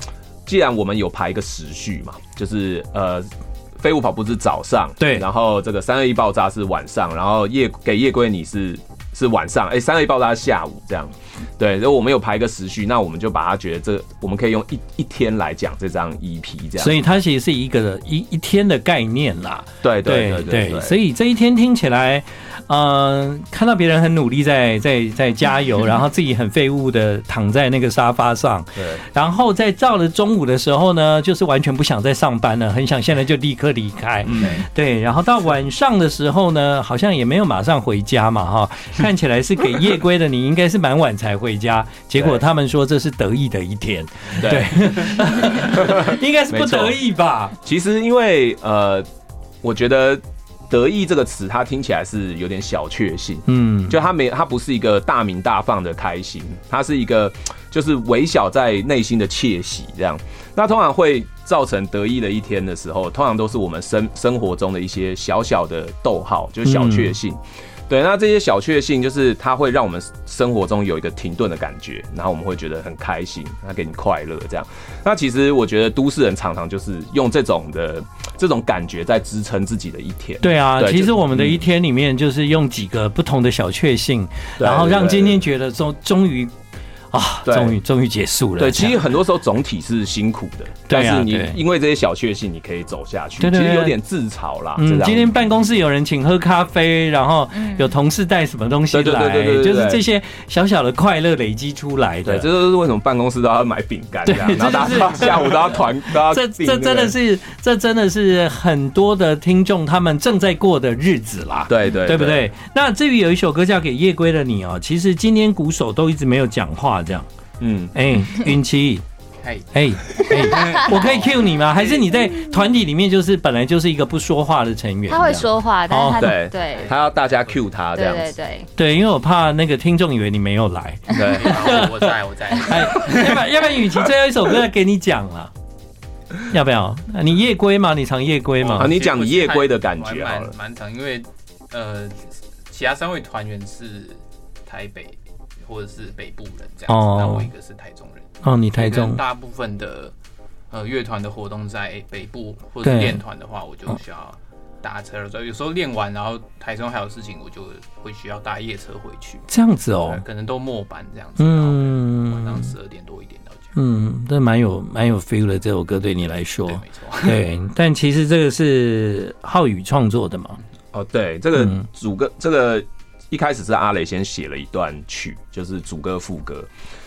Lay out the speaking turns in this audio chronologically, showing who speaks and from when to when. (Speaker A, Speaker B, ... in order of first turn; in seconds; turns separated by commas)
Speaker A: 0.5-17.0, Speaker B: 5.0-5.2, Speaker B: 16.8-47.5, Speaker A: 19.8-21.0, Speaker A: 34.2-34.6, Speaker A: 42.1-42.4, Speaker A: 44.4-47.0, Speaker A: 47.6-49.0, Speaker A: 49.6-81.6, Speaker B: 53.5-54.0, Speaker B: 66.6-67.1, Speaker B: 80.4-86.5, Speaker A: 84.6-85.4, Speaker B: 87.1-89.0, Speaker A: 87.4-87.8, Speaker A: 88.6-95.4, Speaker B: 90.9-91.6, Speaker B: 93.4-94.0, Speaker B: 94.8-102.5, Speaker C: 97.5-97.9, Speaker A: 98.9-100.0, Speaker A: 102.2-107.1, Speaker B: 104.2-117.3, Speaker A: 111.7-112.5, Speaker A: 117.6-117.9, Speaker B: 117.9-119.0, Speaker D: 119.4-122.1, Speaker B: 119.7-126.3, Speaker C: 125.1-127.0, Speaker A: 126.2-128.4, Speaker D: 126.7-127.6, Speaker C: 127.9-128.7, Speaker B: 128.8-135.5, Speaker A: 131.1-131.8, Speaker D: 131.2-133.4, Speaker B: 136.5-138.9, Speaker D: 138.6-150.1, Speaker A: 138.8-140.5, Speaker B: 146.9-147.5, Speaker B: 148.4-149.2, Speaker D: 150.7-159.4, Speaker B: 152.8-153.2, Speaker B: 159.5-160.2, Speaker D: 160.0-163.7, Speaker B: 161.4-162.7, Speaker B: 163.7-170.6, Speaker D: 166.6-167.4, Speaker A: 170.9-176.7, Speaker B: 171.6-171.8